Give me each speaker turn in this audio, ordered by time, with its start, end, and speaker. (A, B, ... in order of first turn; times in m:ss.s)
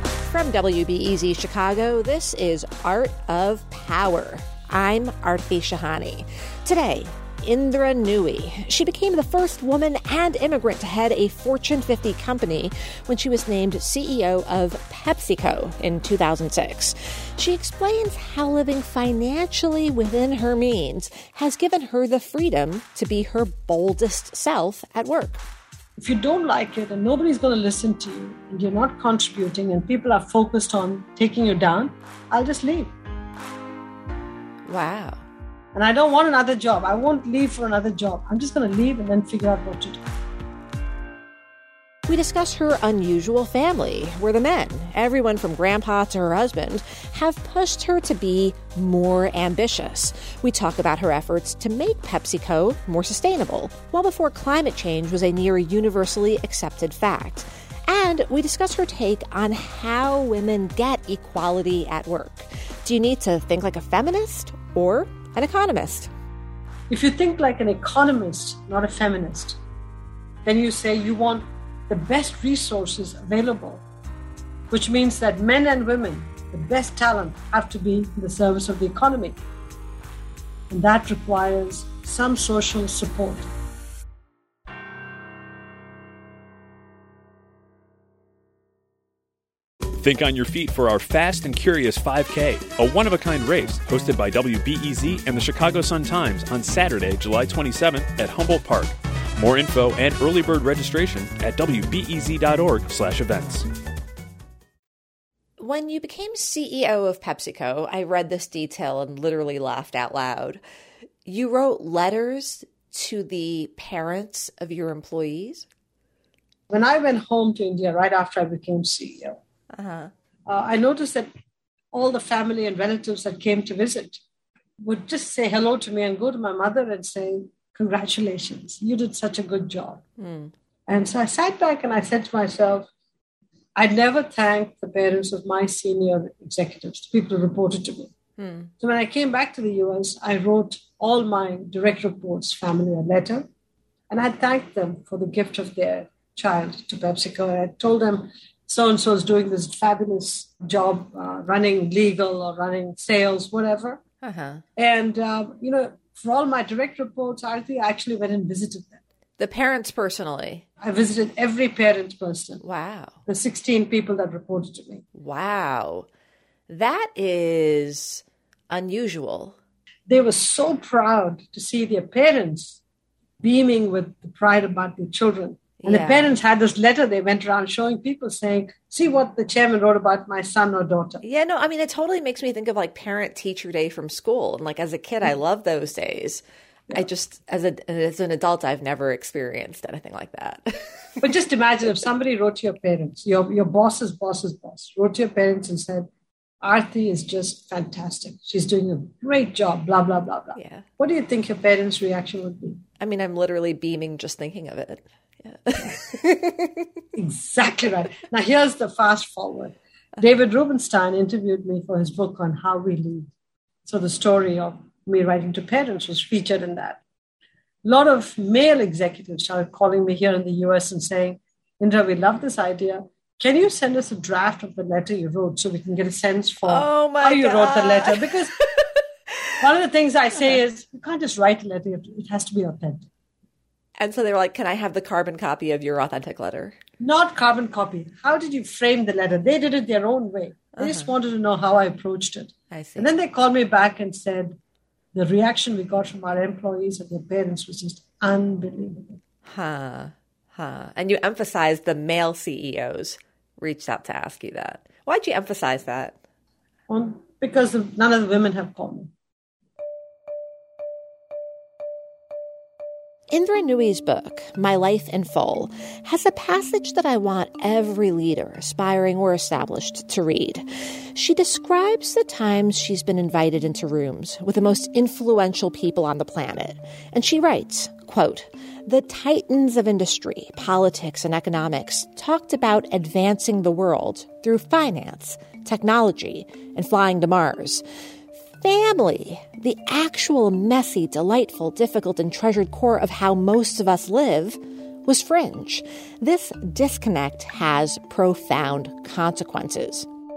0:00.3-0:25.4 A
0:26.0-0:32.9 B
0:34.7-0:35.2 A
0:35.7-0:40.0 B
0:42.1-1:06.1 A
1:06.9-1:09.6 B
1:10.4-1:13.8 B
1:14.7-1:19.4 B
1:20.7-1:23.5 B
1:30.0-1:43.7 C
1:45.6-1:50.6 A
1:51.2-1:55.7 A
1:56.7-1:59.4 B
1:59.7-2:00.1 A
2:00.5-2:01.3 B
2:01.9-2:04.2 B
2:04.8-2:10.0 B
2:10.2-2:10.5 A
2:10.9-2:12.9 B
2:13.8-2:18.1 B
2:18.4-2:18.7 A
2:18.8-2:23.5 B
2:24.1-2:34.0 B
2:34.2-2:34.6 A
2:34.8-2:39.0 B
2:39.4-2:40.6 A
2:40.8-2:42.6 B
2:42.6-2:43.2 A
2:43.3-2:45.0 B
2:45.2-2:46.1 A
2:46.7-2:49.6 A
2:50.1-2:52.8 B
2:53.4-3:01.2 B
2:55.8-2:56.3 A
3:01.2-3:11.2 A
3:11.2-3:16.1 B
3:16.6-3:22.8 B
3:20.6-3:20.8 A
3:23.0-3:26.7 A
3:27.2-3:33.3 B
3:33.9-3:37.0 B
3:37.8-3:48.6 B
3:46.7-3:48.9 A
3:49.6-3:53.1 B
3:54.0-3:56.8 A
3:57.0-4:04.6 B
4:00.8-4:01.1 A
4:02.7-4:03.1 A
4:05.1-4:09.2 B
4:09.5-4:16.2 A
4:16.9-4:19.1 B
4:23.3-4:47.8 A
4:48.6-5:00.1 A